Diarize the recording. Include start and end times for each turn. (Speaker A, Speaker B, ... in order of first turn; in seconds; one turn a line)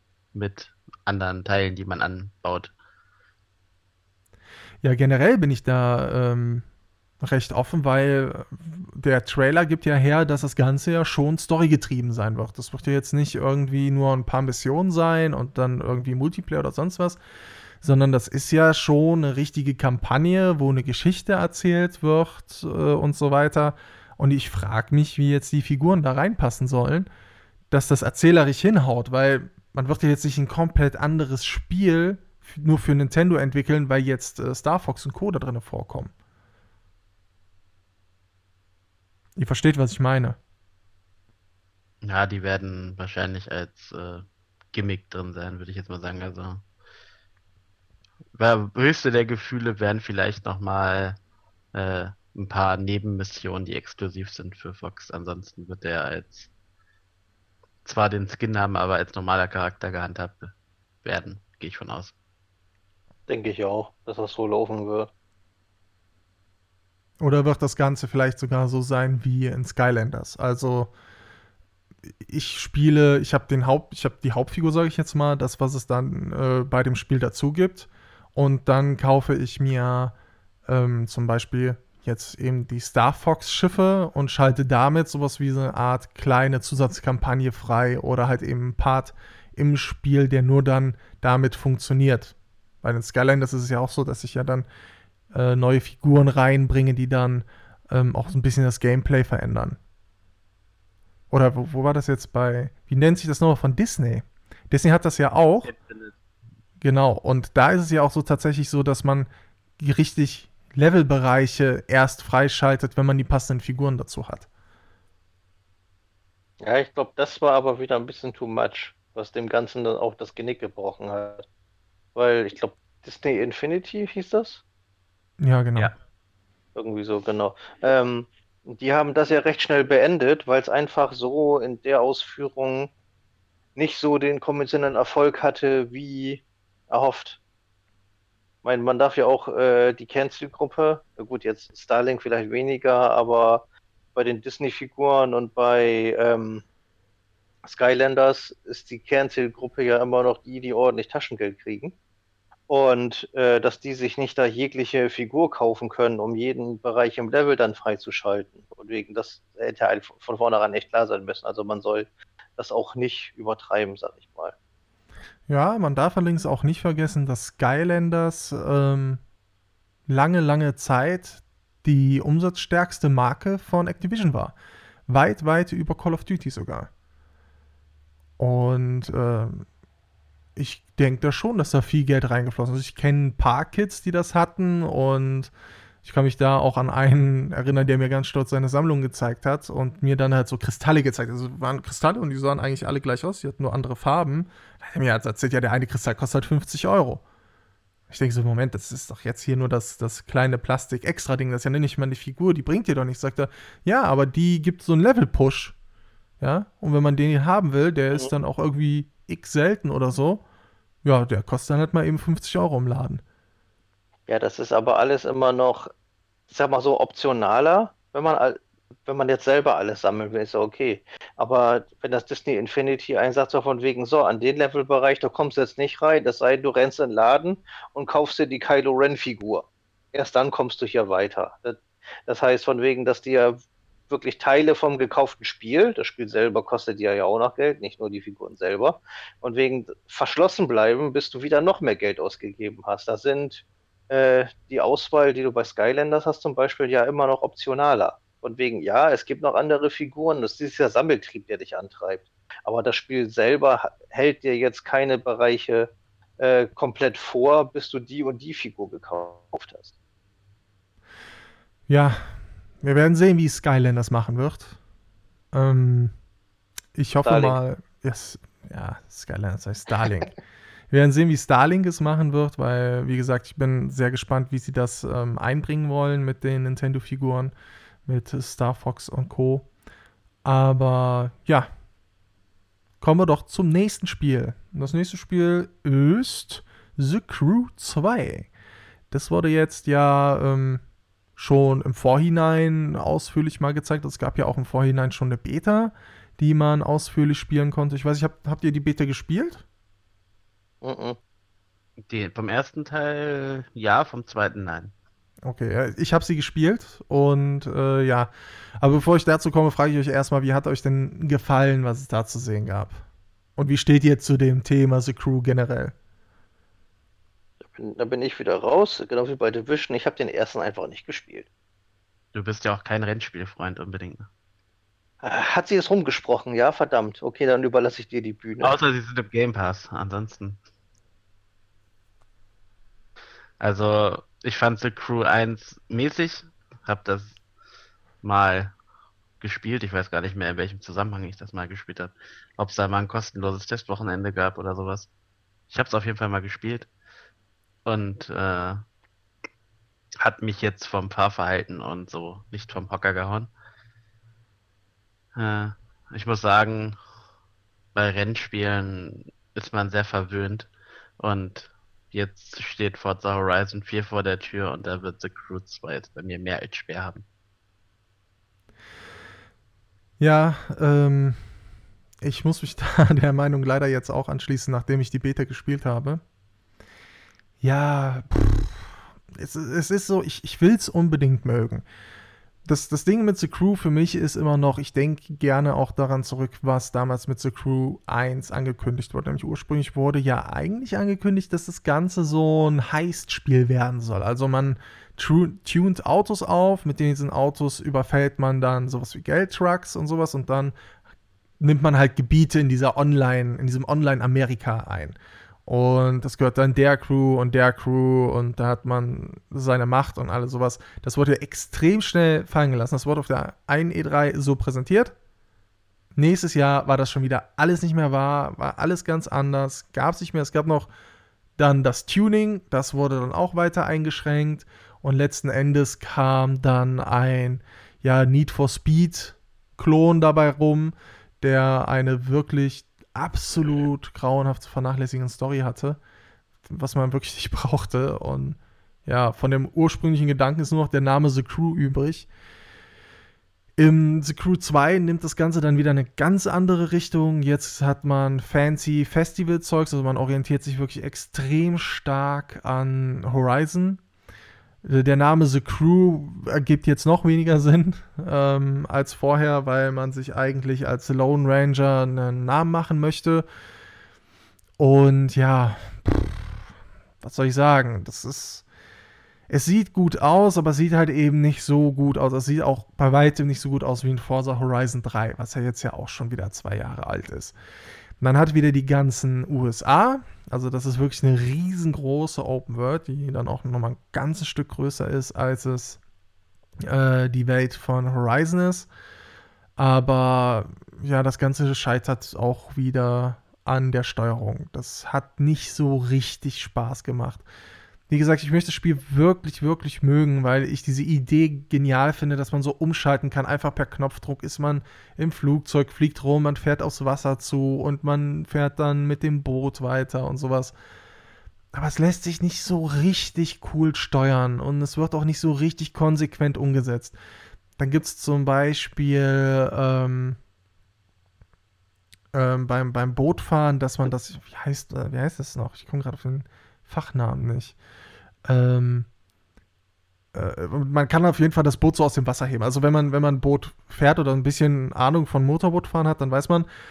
Speaker A: 0.3-2.7
Speaker B: 4.8-6.7
Speaker B: 7.2-17.2
Speaker B: 17.8-27.1
Speaker B: 27.7-36.1
Speaker B: 39.4-40.4
Speaker A: 42.0-46.6
Speaker A: 48.3-51.2
Speaker A: 51.7-56.5
Speaker A: 57.8-60.5
Speaker A: 61.0-62.1
Speaker C: 63.3-65.1
Speaker B: 67.2-70.9
Speaker B: 72.2-80.1
Speaker B: 80.7-94.7
Speaker B: 95.3-99.8
Speaker B: 101.3-105.7
Speaker A: 105.6-106.1
Speaker B: 106.8-114.5
Speaker C: 116.6-121.4
Speaker C: 122.1-124.6
Speaker B: 125.4-125.9
Speaker C: 126.7-132.9
Speaker C: 133.8-137.4
Speaker C: 138.6-146.6
Speaker C: 147.6-151.9
Speaker C: 152.7-164.5
Speaker B: 165.5-169.2
Speaker B: 170.1-174.6
Speaker B: 175.1-176.9
Speaker B: 178.4-179.7
Speaker B: 180.6-185.5
Speaker B: 186.0-197.2
Speaker B: 198.1-205.7
Speaker B: 206.4-210.4
Speaker B: 211.0-213.2
Speaker C: 214.3-215.9
Speaker C: 216.5-233.6
Speaker C: 234.1-259.9
Speaker B: 261.9-264.8
Speaker B: 265.5-266.1
Speaker B: 266.9-270.4
Speaker C: 267.2-267.6
Speaker B: 270.9-277.5
Speaker B: 278.1-279.7
Speaker B: 280.4-281.7
Speaker B: 283.0-288.5
Speaker B: 289.1-290.8
Speaker B: 291.4-299.6
Speaker C: 300.8-301.2
Speaker A: 302.0-304.9
Speaker B: 305.4-313.0
Speaker B: 313.6-315.9
Speaker C: 317.6-321.5
Speaker A: 322.3-324.3
Speaker C: 325.2-328.8
Speaker A: 328.6-330.6
Speaker A: 333.6-337.4
Speaker A: 338.2-338.7
Speaker A: 339.4-345.1
Speaker A: 345.7-346.9
Speaker A: 347.8-348.8
Speaker A: 350.2-353.5
Speaker A: 355.4-357.0
Speaker A: 357.9-360.7
Speaker A: 361.2-367.2
Speaker B: 370.2-371.5
Speaker B: 372.2-376.2
Speaker B: 377.6-381.8
Speaker B: 382.6-400.7
Speaker B: 401.6-415.1
Speaker B: 416.1-420.9
Speaker B: 421.6-436.0
Speaker B: 436.6-442.3
Speaker B: 443.8-454.0
Speaker B: 454.8-463.4
Speaker B: 464.8-466.6
Speaker B: 467.2-468.6
Speaker B: 469.5-477.5
Speaker B: 478.2-486.0
Speaker B: 486.8-488.9
Speaker B: 489.8-497.4
Speaker B: 498.1-510.7
Speaker B: 511.7-517.2
Speaker B: 517.8-520.4
Speaker B: 522.3-527.8
Speaker B: 528.5-529.1
Speaker B: 530.3-536.7